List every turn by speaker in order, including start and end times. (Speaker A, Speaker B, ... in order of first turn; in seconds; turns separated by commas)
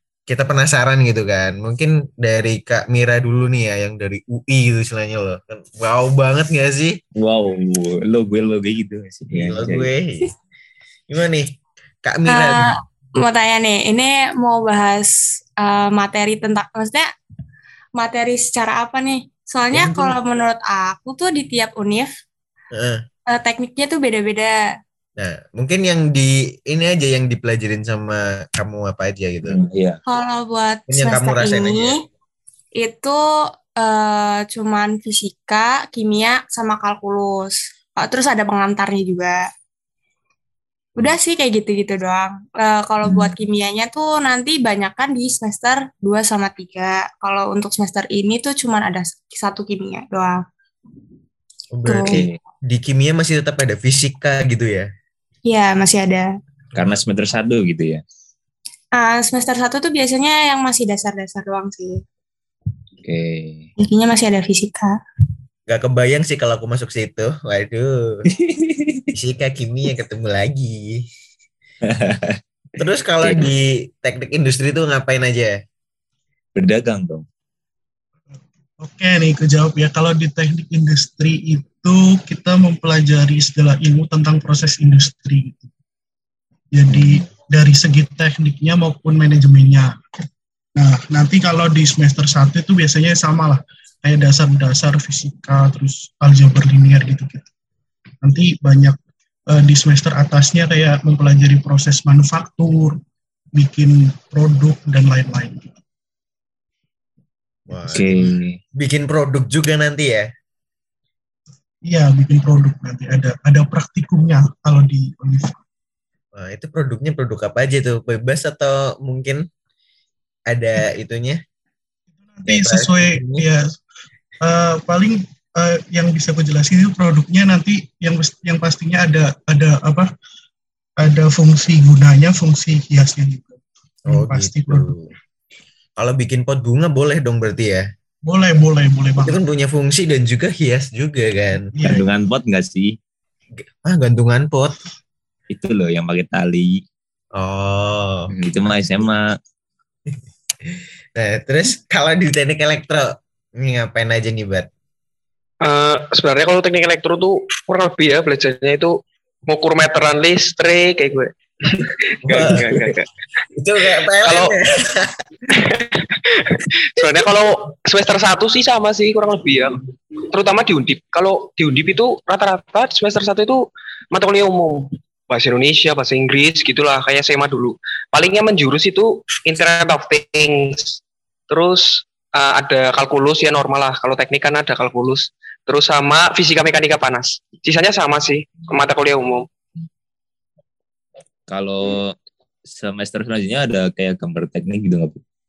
Speaker A: 0.3-7.0, Speaker B: 7.2-9.9, Speaker A: 9.3-10.3, Speaker A: 11.1-11.5, Speaker A: 12.1-12.7, Speaker C: 12.3-17.1, Speaker C: 18.0-22.1, Speaker A: 19.7-20.1, Speaker A: 22.7-23.0, Speaker C: 23.3-24.6, Speaker A: 25.2-29.6, Speaker B: 29.5-30.0, Speaker C: 30.1-32.0, Speaker A: 30.9-32.0, Speaker C: 32.8-33.2, Speaker C: 33.8-39.4, Speaker C: 41.0-50.4, Speaker B: 43.0-43.3, Speaker A: 51.7-54.9, Speaker C: 51.9-52.1, Speaker B: 52.1-52.4, Speaker C: 55.5-56.3, Speaker B: 56.8-58.0, Speaker C: 59.0-62.0, Speaker B: 63.0-63.7, Speaker C: 63.8-65.0, Speaker A: 65.7-68.2, Speaker B: 68.3-69.1, Speaker A: 69.1-71.0, Speaker B: 71.9-72.4, Speaker A: 72.8-75.6, Speaker B: 73.2-73.5, Speaker B: 76.6-77.2, Speaker D: 78.3-85.7, Speaker D: 86.7-90.0, Speaker B: 86.9-87.2, Speaker D: 90.8-97.5, Speaker D: 98.2-99.0, Speaker D: 99.5-103.0, Speaker D: 103.6-105.8, Speaker A: 107.7-110.3, Speaker B: 107.9-108.6, Speaker D: 111.9-115.6, Speaker A: 116.3-119.5, Speaker A: 120.5-121.4, Speaker D: 122.2-123.7, Speaker A: 122.5-123.5, Speaker D: 124.4-130.1, Speaker D: 131.0-134.9, Speaker A: 134.1-135.1, Speaker A: 136.0-137.9, Speaker D: 138.3-139.4, Speaker A: 139.2-141.7, Speaker D: 141.7-142.1, Speaker B: 141.8-142.9, Speaker A: 143.8-144.8, Speaker B: 145.5-146.8, Speaker A: 147.4-148.8, Speaker B: 148.3-149.3, Speaker A: 150.7-154.7, Speaker E: 155.6-158.9, Speaker E: 159.5-163.1, Speaker A: 162.3-162.7, Speaker A: 163.6-165.2, Speaker E: 164.2-164.6, Speaker E: 165.5-189.5, Speaker B: 191.5-192.2, Speaker B: 192.7-195.2